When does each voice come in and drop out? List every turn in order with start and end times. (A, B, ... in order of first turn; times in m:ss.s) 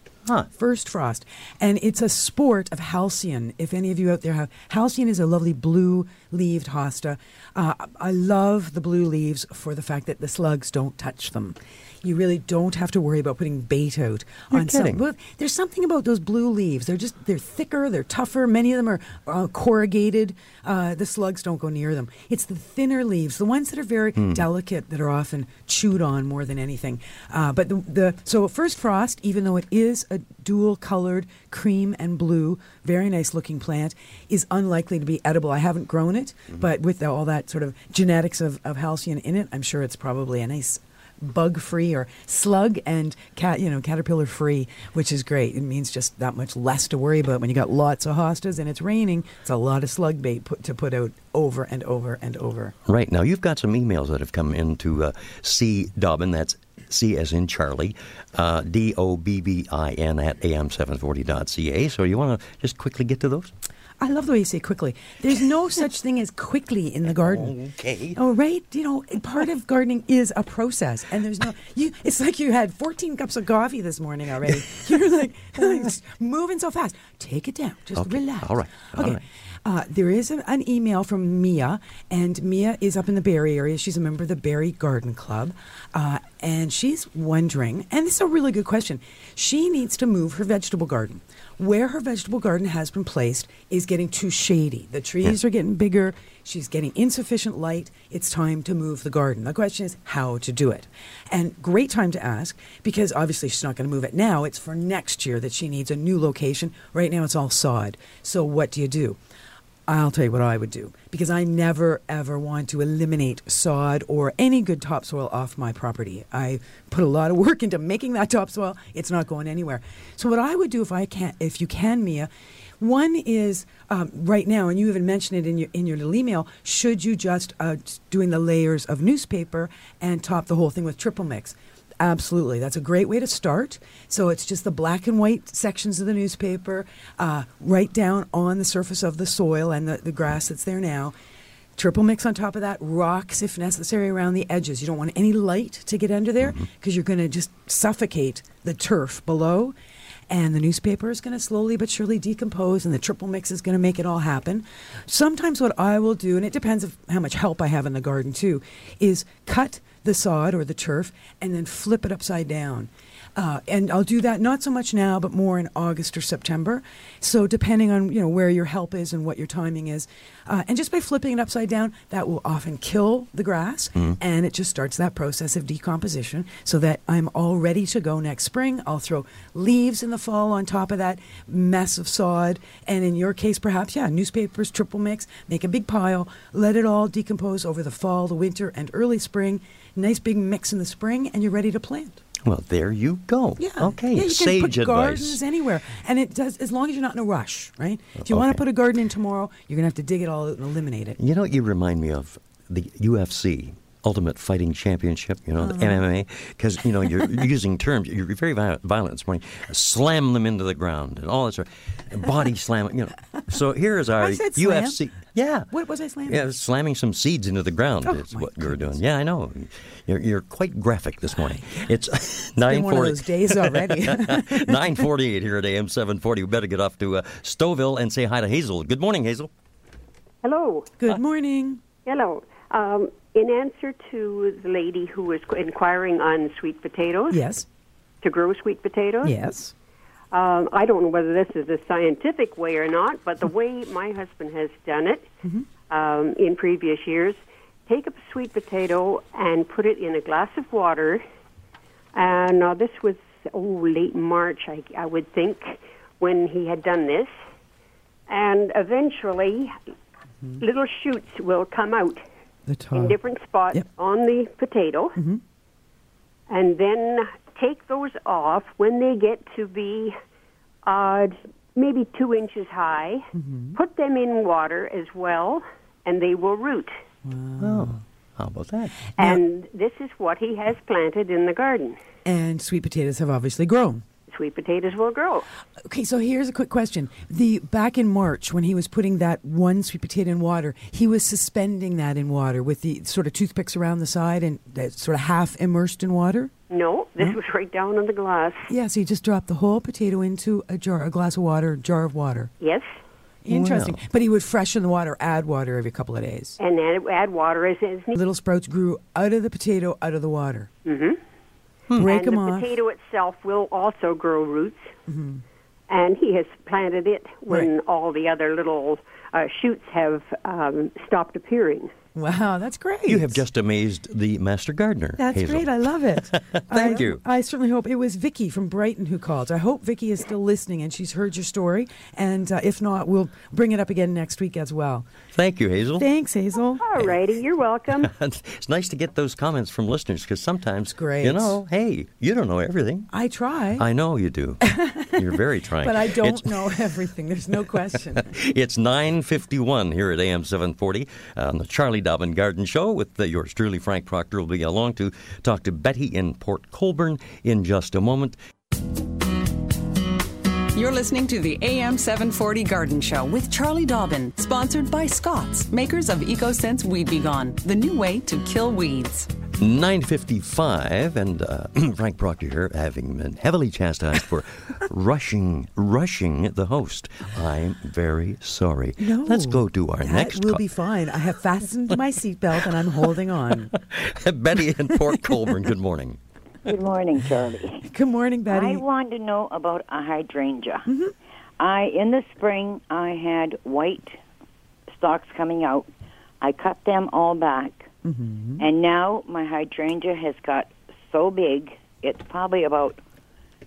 0:00.6-0:52.8 A
0:14.5-0:15.0 B
0:24.2-0:24.5 B
0:52.9-1:03.5 B
1:04.0-1:07.5 A
1:07.1-1:08.2 B
1:08.2-1:49.2 A
1:18.0-1:19.2 B
1:49.9-2:02.3 A
2:02.8-2:21.1 A
2:21.8-2:29.7 A
2:26.4-2:26.7 B
2:30.3-3:12.2 A
3:12.4-3:15.4 B
3:13.6-3:21.2 A
3:18.2-3:18.6 B
3:21.2-3:35.7 B
3:25.6-3:26.0 A
3:34.2-3:35.0 A
3:35.7-3:36.5 A
3:36.3-3:49.5 B
3:38.0-3:39.0 A
3:42.6-3:45.0 A
3:50.4-3:50.9 C
3:51.0-3:51.8 A
3:52.0-3:57.4 C
3:57.3-3:57.6 A
3:58.2-3:59.4 C
3:59.2-3:59.7 A
4:00.3-4:05.3 C
4:05.9-4:11.2 C
4:12.2-4:17.3 C
4:18.3-4:19.8 C
4:20.6-4:22.2 C
4:22.7-4:23.2 A
4:22.9-4:25.2 C
4:26.5-4:30.1 C
4:30.8-4:37.0 C
4:33.4-4:33.8 A
4:37.2-4:38.0 A
4:37.6-4:39.0 B
4:39.2-4:42.0 C
4:42.2-4:44.0 A
4:44.3-4:45.4 C
4:45.8-4:56.5 A
4:56.7-4:58.7 C
4:58.7-5:02.5 A
5:02.6-5:02.9 C
5:03.4-5:06.6 A
5:03.5-5:04.0 B
5:06.6-5:08.2 C
5:08.2-5:10.7 A
5:10.8-5:11.2 C
5:12.0-5:12.8 A
5:12.0-5:14.9 C
5:15.1-5:15.4 A
5:15.9-5:21.9 C
5:22.2-5:23.4 A
5:23.1-5:27.2 B
5:25.2-5:35.1 A
5:35.3-5:36.1 B
5:36.0-5:37.1 A
5:36.8-5:38.1 C
5:38.0-5:43.1 B
5:41.0-5:41.6 A
5:43.1-5:43.8 A
5:43.8-5:46.8 B
5:44.6-5:45.3 A
5:45.8-5:48.3 A
5:48.2-5:58.4 B
6:00.7-6:09.3 D
6:09.6-6:20.6 B
6:19.0-6:23.7 A
6:23.7-6:26.2 B
6:26.6-6:27.8 E
6:27.8-6:28.8 A
6:28.5-6:30.9 E
6:30.9-6:31.1 A
6:31.6-6:34.2 E
6:34.9-6:35.9 E
6:36.4-6:37.9 E
6:38.0-6:38.6 A
6:38.6-6:43.0 E